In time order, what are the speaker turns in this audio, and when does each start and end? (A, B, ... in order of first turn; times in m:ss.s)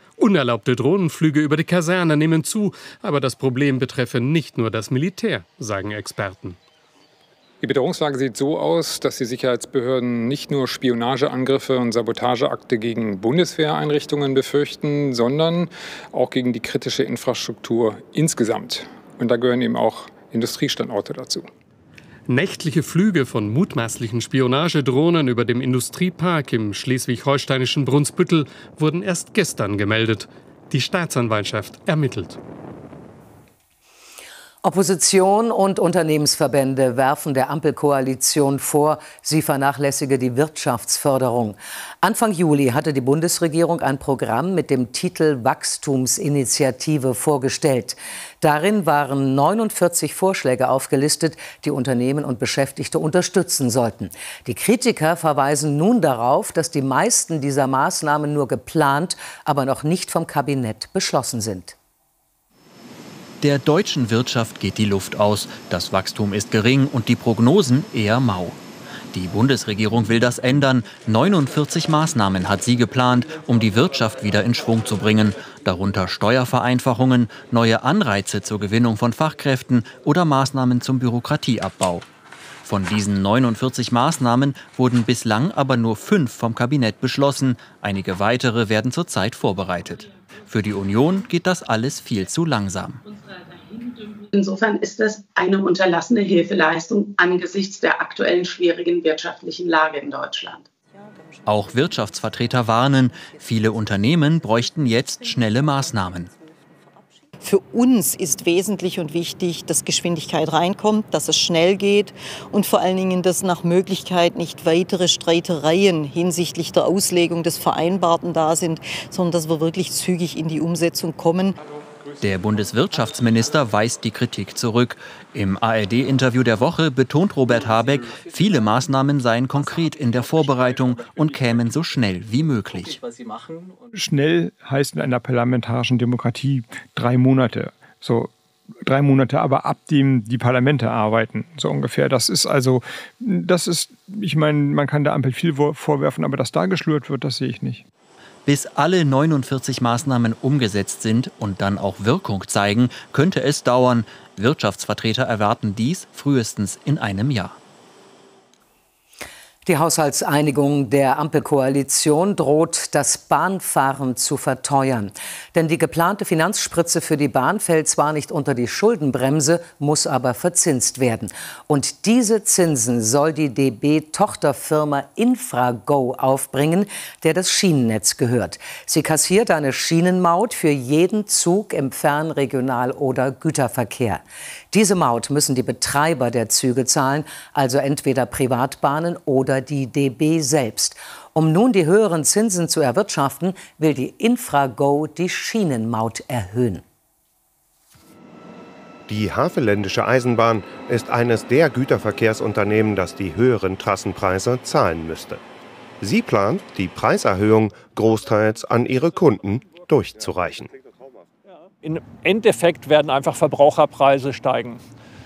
0:00.2-0:06.6 A
0:07.6-0:21.5 B
0:22.3-0:32.4 A
0:34.6-1:01.8 C
1:03.4-1:22.1 D
1:22.6-1:33.0 D
1:33.7-1:40.6 E
1:41.5-1:46.3 D
1:47.4-2:01.6 F
2:02.2-2:13.0 D
2:14.0-2:18.3 G
2:18.8-2:27.8 G
2:28.5-2:37.6 D
2:39.6-3:16.8 C
3:19.1-3:25.4 H
3:26.0-3:30.7 H
3:31.8-3:34.8 I